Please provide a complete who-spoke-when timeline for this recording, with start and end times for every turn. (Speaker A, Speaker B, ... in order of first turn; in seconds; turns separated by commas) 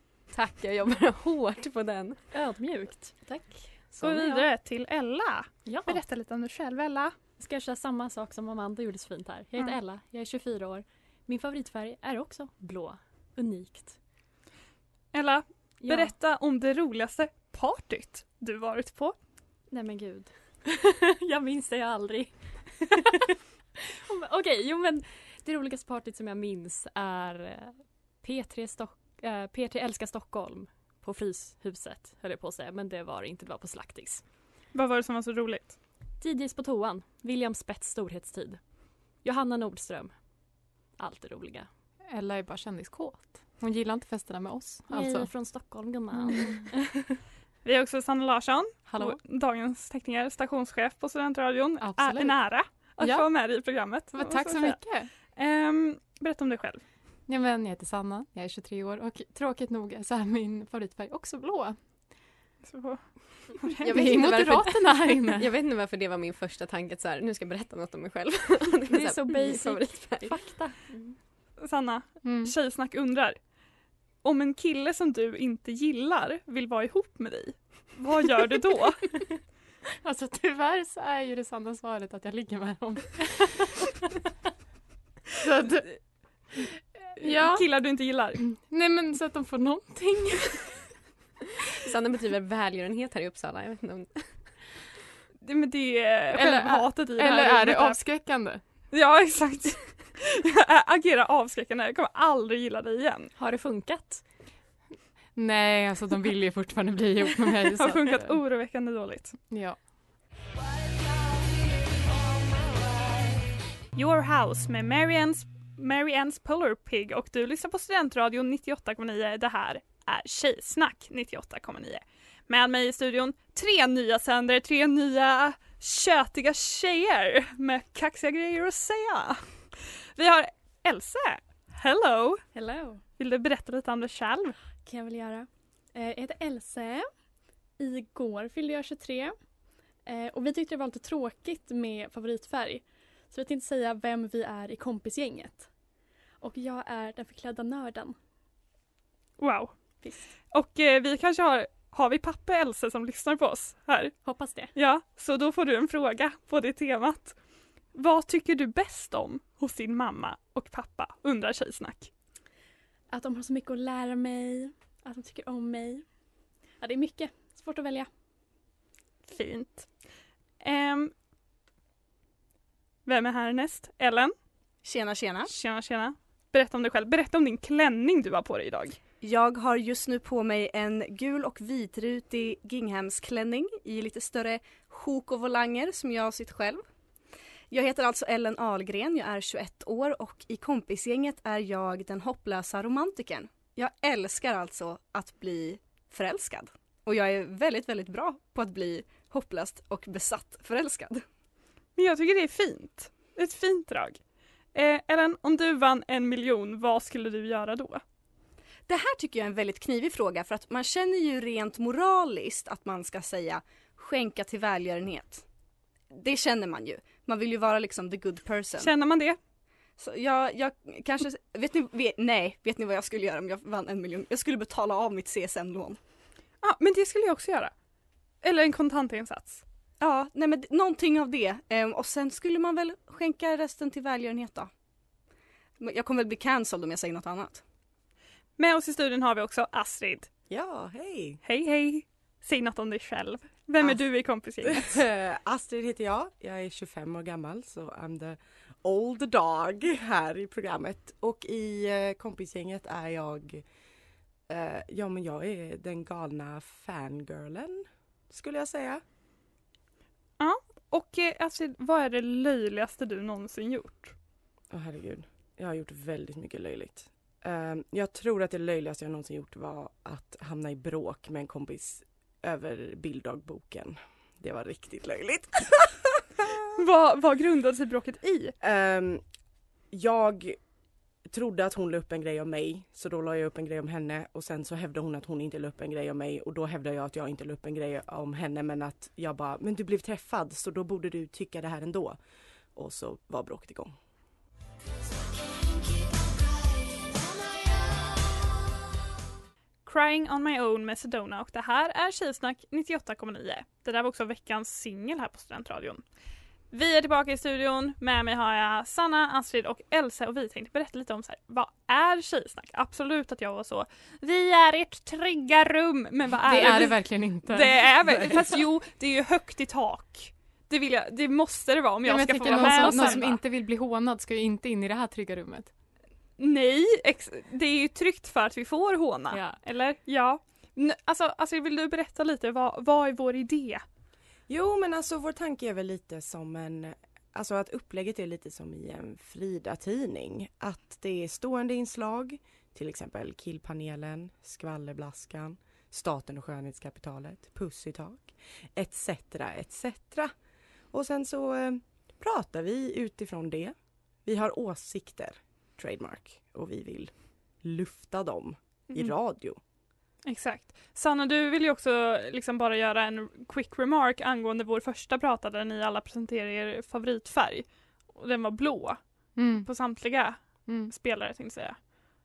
Speaker A: 0.3-2.2, Speaker B: 2.3-4.5, Speaker C: 4.0-7.2, Speaker B: 5.7-6.0, Speaker B: 7.4-14.0, Speaker C: 15.1-19.2, Speaker B: 15.8-16.1, Speaker B: 19.7-23.2, Speaker B: 24.1-34.2, Speaker C: 34.7-35.8, Speaker B: 36.2-38.6, Speaker B: 39.2-40.1, Speaker B: 41.0-41.7, Speaker D: 42.1-45.3, Speaker B: 44.9-47.0, Speaker D: 46.1-46.6, Speaker C: 47.6-56.8, Speaker D: 51.8-52.4, Speaker D: 53.0-55.1, Speaker D: 57.3-61.8, Speaker C: 62.6-64.0, Speaker D: 63.8-65.5, Speaker B: 63.9-65.0, Speaker A: 65.4-70.5, Speaker B: 68.9-71.2, Speaker C: 71.6-73.4, Speaker D: 72.2-72.5, Speaker C: 74.2-79.3, Speaker D: 80.0-83.9, Speaker D: 85.4-86.0, Speaker D: 87.2-87.7, Speaker C: 87.3-88.4, Speaker D: 88.6-90.7, Speaker A: 91.8-94.6, Speaker C: 95.4-98.0, Speaker D: 96.3-98.6, Speaker C: 98.9-103.3, Speaker B: 103.4-104.2, Speaker D: 105.3-108.4, Speaker C: 107.8-109.4, Speaker D: 109.5-109.8, Speaker C: 114.0-132.4, Speaker E: 132.5-133.0, Speaker C: 133.2-134.6, Speaker E: 134.8-137.1, Speaker E: 137.8-139.4, Speaker E: 140.1-145.7, Speaker E: 146.4-148.2, Speaker C: 149.4-154.2, Speaker E: 150.0-150.3, Speaker E: 154.2-154.7, Speaker C: 154.7-157.4, Speaker C: 157.9-162.1, Speaker E: 163.1-166.1, Speaker E: 166.8-168.1, Speaker C: 169.3-169.9, Speaker C: 170.6-171.1, Speaker C: 173.1-174.3, Speaker F: 174.8-175.5, Speaker C: 175.5-179.0, Speaker F: 179.2-186.8, Speaker F: 187.7-201.2, Speaker C: 202.0-204.2, Speaker C: 204.7-208.0, Speaker F: 208.9-215.4, Speaker F: 216.1-218.9, Speaker C: 218.8-219.4, Speaker F: 220.0-226.0, Speaker C: 226.6-227.7, Speaker C: 228.4-229.6, Speaker F: 230.0-234.7, Speaker F: 235.8-237.6, Speaker C: 238.6-240.3, Speaker G: 240.5-241.4, Speaker C: 241.4-245.0, Speaker G: 244.7-253.6, Speaker G: 254.5-259.0, Speaker C: 260.4-264.1, Speaker G: 264.7-276.2, Speaker C: 276.8-278.6, Speaker G: 278.6-279.2, Speaker G: 279.9-280.6, Speaker G: 281.3-292.2, Speaker G: 292.8-293.9, Speaker C: 299.9-306.0, Speaker C: 306.7-323.4, Speaker D: 316.5-318.4, Speaker D: 322.1-325.7, Speaker F: 322.5-322.9, Speaker C: 326.4-333.8, Speaker B: 329.3-329.6, Speaker G: 334.5-350.3, Speaker G: 350.9-359.6, Speaker C: 360.2-369.0, Speaker D: 369.4-369.7, Speaker C: 369.6-371.8, Speaker D: 370.7-370.9